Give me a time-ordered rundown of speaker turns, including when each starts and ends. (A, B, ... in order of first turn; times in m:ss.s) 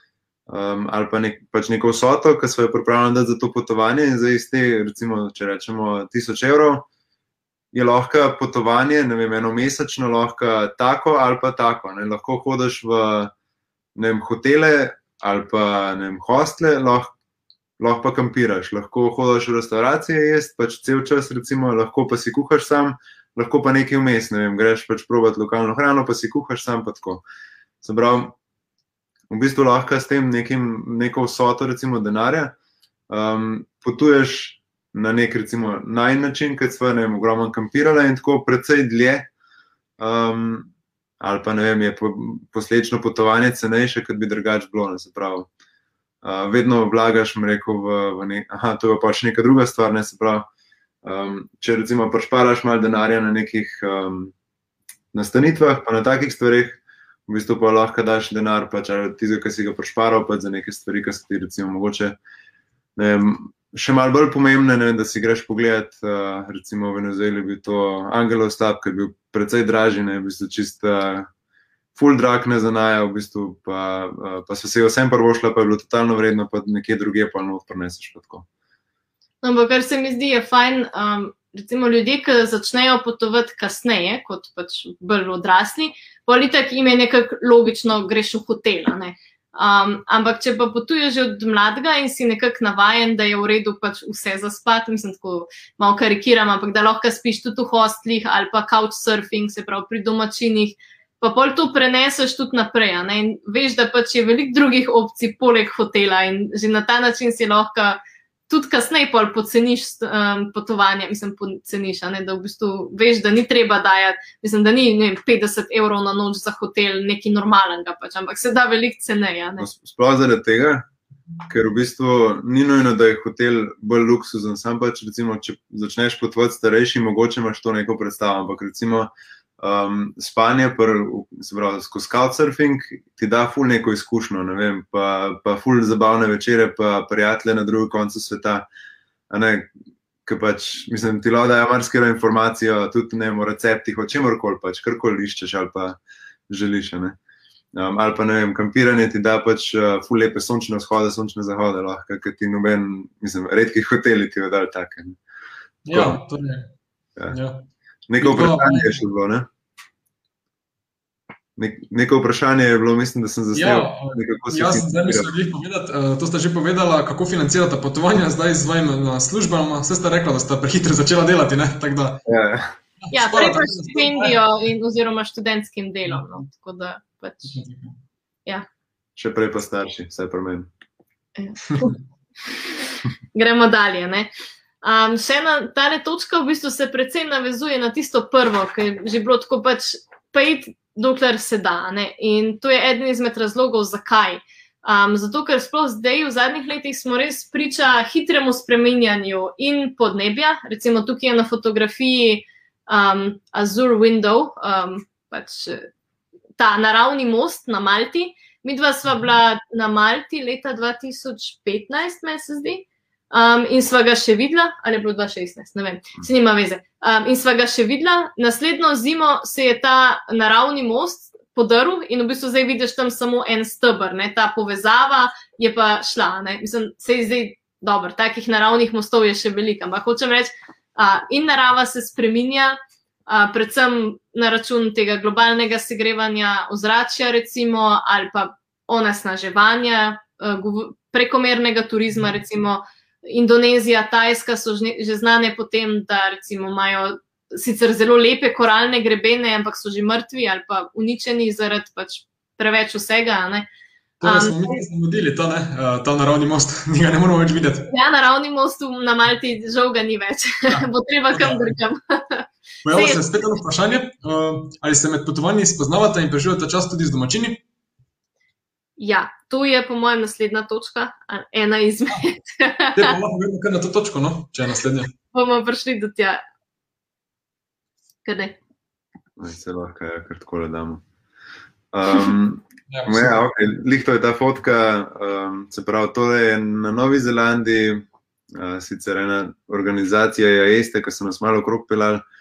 0:00.5-0:06.9 A
0:07.7-0:13.3 A
0:14.0-0:17.1 A
0:17.8-0:27.2 A
0:27.8-0:28.4 A
0:29.3-0:32.5 A
0:33.1-0:39.3 A
0:40.0-0:45.5 A
0:46.2-0:50.5 A
0:51.0-0:54.3 A
0:55.1-1:02.2 A
1:03.0-1:11.3 A
1:11.9-1:18.5 A
1:19.4-1:59.7 B
1:59.6-2:00.8 A
2:01.5-2:18.7 A
2:19.3-2:19.7 A
2:20.2-2:27.2 A
2:27.7-2:35.2 A
2:35.8-2:36.7 C
2:35.9-2:36.2 A
2:37.3-2:37.7 C
2:38.1-2:39.5 A
2:38.2-2:39.0 C
2:41.6-2:45.3 A
2:43.5-2:52.2 C
2:52.2-2:52.7 A
2:53.0-2:54.4 C
2:53.1-2:57.6 B
2:56.1-2:56.4 C
2:57.5-2:57.9 C
2:59.2-3:00.7 A
3:01.4-3:01.9 B
3:01.7-3:01.9 C
3:03.3-3:04.3 B
3:04.8-3:25.9 B
3:26.6-4:13.7 B
4:14.2-4:17.9 C
4:14.2-4:14.8 B
4:17.9-4:23.2 B
4:20.7-4:21.7 C
4:22.8-4:27.6 C
4:29.0-4:33.1 B
4:32.9-4:35.1 C
4:35.3-4:36.4 B
4:38.2-4:38.6 B
4:39.4-4:41.0 A
4:41.9-4:52.2 A
4:42.9-4:43.4 C